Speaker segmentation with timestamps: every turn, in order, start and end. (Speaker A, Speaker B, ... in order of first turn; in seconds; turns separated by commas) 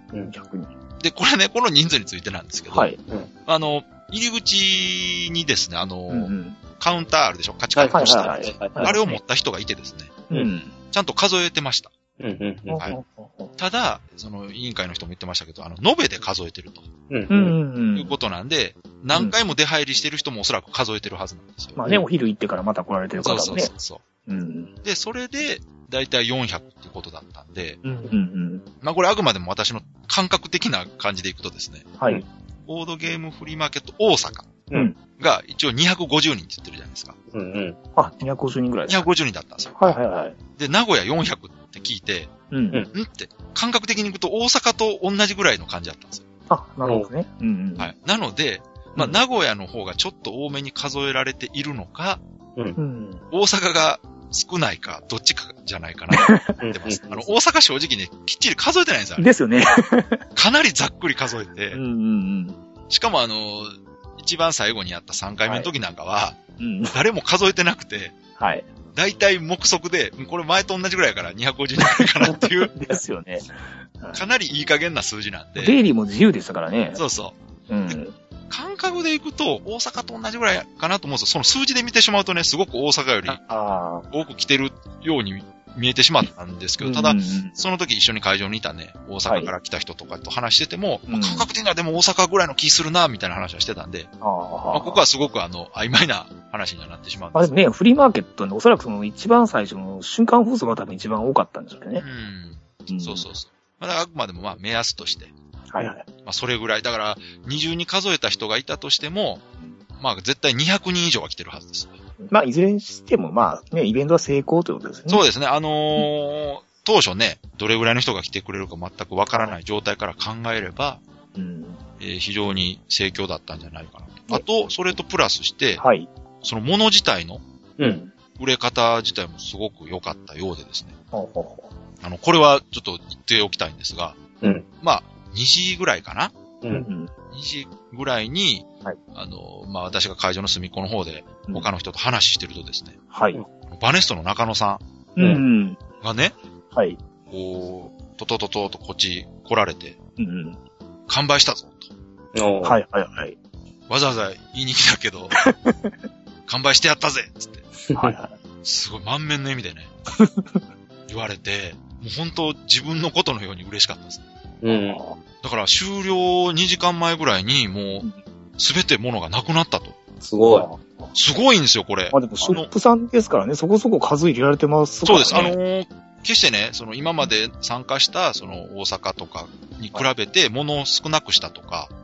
Speaker A: 0.3-0.7, Speaker B: 1.0-2.9, Speaker A: 2.7-3.0, Speaker B: 3.5-10.2, Speaker A: 6.1-6.6, Speaker C: 7.7-9.0, Speaker A: 7.9-9.2, Speaker A: 10.3-10.7, Speaker B: 10.9-11.9, Speaker C: 12.2-12.8, Speaker A: 12.7-13.5, Speaker B: 13.6-16.9, Speaker C: 17.1-17.5, Speaker A: 17.3-18.1, Speaker B: 17.9-21.8, Speaker A: 21.8-23.7, Speaker B: 23.2-24.0, Speaker A: 24.2-24.7, Speaker B: 24.8-27.8, Speaker A: 27.8-28.6, Speaker B: 28.8-31.9, Speaker B: 32.6-34.5, Speaker B: 35.2-37.1, Speaker C: 37.3-37.8, Speaker A: 38.0-39.0, Speaker B: 38.9-40.0, Speaker A: 39.8-40.4, Speaker B: 40.5-42.3, Speaker A: 42.5-42.8, Speaker B: 42.9-46.2, Speaker A: 46.5-47.9, Speaker C: 46.8-47.1, Speaker B: 47.8-52.2, Speaker A: 52.8-53.2, Speaker B: 53.3-59.2, Speaker A: 56.1-56.6, Speaker C: 56.6-57.3, Speaker A: 59.2-60.2, Speaker B: 60.3-61.8, Speaker A: 61.7-62.6, Speaker B: 62.9-66.4, Speaker A: 65.4-65.7, Speaker A: 66.6-66.9, Speaker B: 66.9-68.1, Speaker A: 68.4-68.6, Speaker B: 68.9-72.7, Speaker A: 72.7-74.2, Speaker B: 74.1-75.8, Speaker A: 75.6-77.0, Speaker B: 76.9-77.3, Speaker A: 77.7-78.1, Speaker B: 78.5-83.4, Speaker A: 83.3-84.0, Speaker B: 84.1-94.1, Speaker A: 86.8-87.5, Speaker A: 89.3-89.5, Speaker A: 91.1-91.5, Speaker A: 94.2-95.0, Speaker B: 94.7-97.5, Speaker A: 97.3-102.0, Speaker B: 102.0-105.3, Speaker A: 102.9-103.2, Speaker A: 105.7-106.0, Speaker B: 106.2-109.4, Speaker B: 110.0-112.0, Speaker A: 112.2-115.2, Speaker B: 115.1-121.0, Speaker A: 121.3-121.8, Speaker B: 122.0-125.8, Speaker A: 125.8-126.1, Speaker B: 126.4-127.4, Speaker C: 127.8-128.1, Speaker B: 128.3-131.0, Speaker A: 131.1-131.7, Speaker B: 132.0-134.2, Speaker C: 134.4-134.7, Speaker B: 134.8-136.3, Speaker A: 136.7-137.1, Speaker B: 137.3-143.0, Speaker A: 143.1-143.4, Speaker B: 143.7-144.8, Speaker A: 145.2-145.8, Speaker C: 145.2-145.4, Speaker B: 146.0-146.3, Speaker A: 146.7-147.0, Speaker B: 147.3-150.0, Speaker A: 150.2-150.6, Speaker B: 151.1-151.9, Speaker C: 152.3-152.8, Speaker A: 152.6-153.3, Speaker B: 153.9-155.4, Speaker A: 155.4-155.9, Speaker B: 156.5-157.7, Speaker C: 157.9-158.1, Speaker A: 157.9-158.3, Speaker B: 158.6-159.9, Speaker A: 160.2-160.6, Speaker B: 161.1-164.2, Speaker C: 164.6-165.0, Speaker A: 164.7-165.2, Speaker B: 165.4-170.0, Speaker C: 170.2-170.7, Speaker A: 170.5-171.1, Speaker B: 171.1-172.7, Speaker A: 172.1-175.6, Speaker B: 175.0-181.9